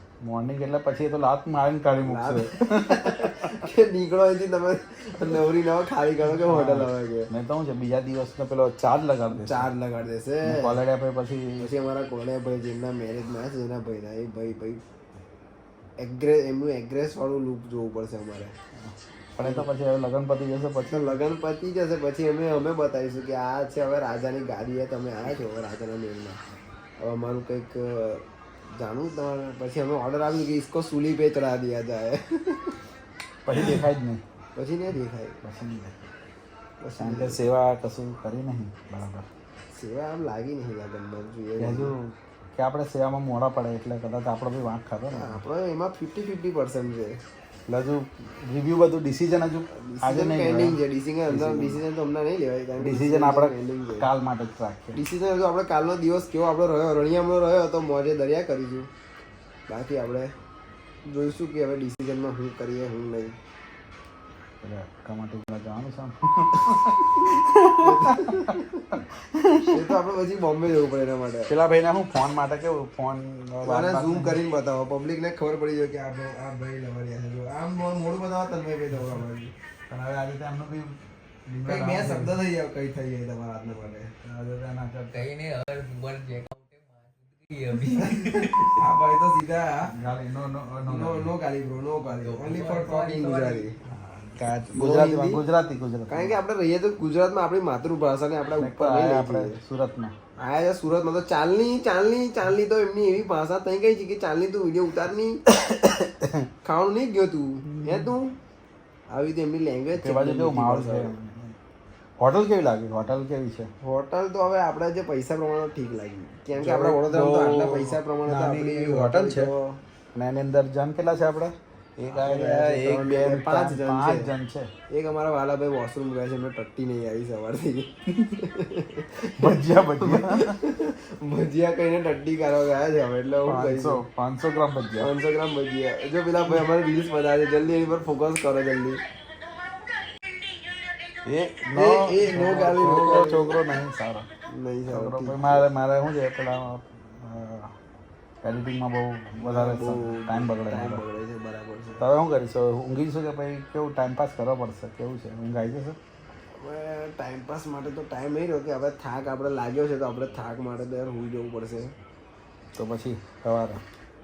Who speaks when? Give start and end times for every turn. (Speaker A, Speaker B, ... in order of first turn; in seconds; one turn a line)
Speaker A: 0.2-3.6
Speaker B: 2.0-7.3
Speaker A: 6.4-9.7
Speaker B: 9.4-10.8
Speaker A: 10.4-11.7
Speaker B: 11.6-14.8
Speaker B: 16.0-18.6
Speaker A: 18.8-21.2
Speaker B: 19.4-19.7
Speaker B: 20.8-26.4
Speaker B: 27.0-28.2
Speaker B: 28.8-32.8
Speaker A: 33.5-34.2
Speaker B: 33.5-33.8
Speaker B: 34.6-35.4
Speaker A: 35.4-36.0
Speaker B: 36.8-37.5
Speaker A: 37.0-39.3
Speaker B: 39.7-41.9
Speaker A: 41.6-45.4
Speaker B: 45.1-47.2
Speaker A: 47.7-50.8
Speaker B: 49.7-54.1
Speaker A: 51.3-51.8
Speaker A: 52.8-55.0
Speaker B: 55.0-58.9
Speaker B: 59.7-60.3
Speaker B: 61.1-63.4
Speaker A: 64.6-69.8
Speaker B: 67.8-69.0
Speaker B: 69.7-71.5
Speaker A: 71.5-74.4
Speaker B: 73.6-79.5
Speaker A: 79.9-82.3
Speaker B: 81.7-84.1
Speaker A: 84.2-85.3
Speaker C: 85.1-88.7
Speaker B: 87.9-89.9
Speaker A: 89.9-91.3
Speaker B: 90.8-93.8
Speaker C: 92.2-93.7
Speaker A: 93.9-96.4
Speaker B: 94.5-95.4
Speaker B: 96.1-99.6
Speaker A: 98.6-100.1
Speaker B: 100.4-105.4
Speaker A: 105.6-106.5
Speaker B: 106.6-108.3
Speaker A: 107.7-108.1
Speaker B: 109.1-111.2
Speaker A: 110.0-111.6
Speaker A: 112.2-113.7
Speaker B: 113.8-119.8
Speaker A: 116.6-119.5
Speaker A: 120.2-124.7
Speaker B: 122.1-124.3
Speaker B: 124.9-134.0
Speaker A: 129.4-130.6
Speaker A: 133.4-135.1
Speaker B: 135.0-139.0
Speaker A: 141.2-144.3
Speaker B: 141.7-143.6
Speaker B: 144.5-145.7
Speaker A: 144.9-147.8
Speaker A: 148.4-151.0
Speaker B: 149.4-152.1
Speaker A: 152.0-156.0
Speaker B: 156.5-161.9
Speaker A: 162.8-163.8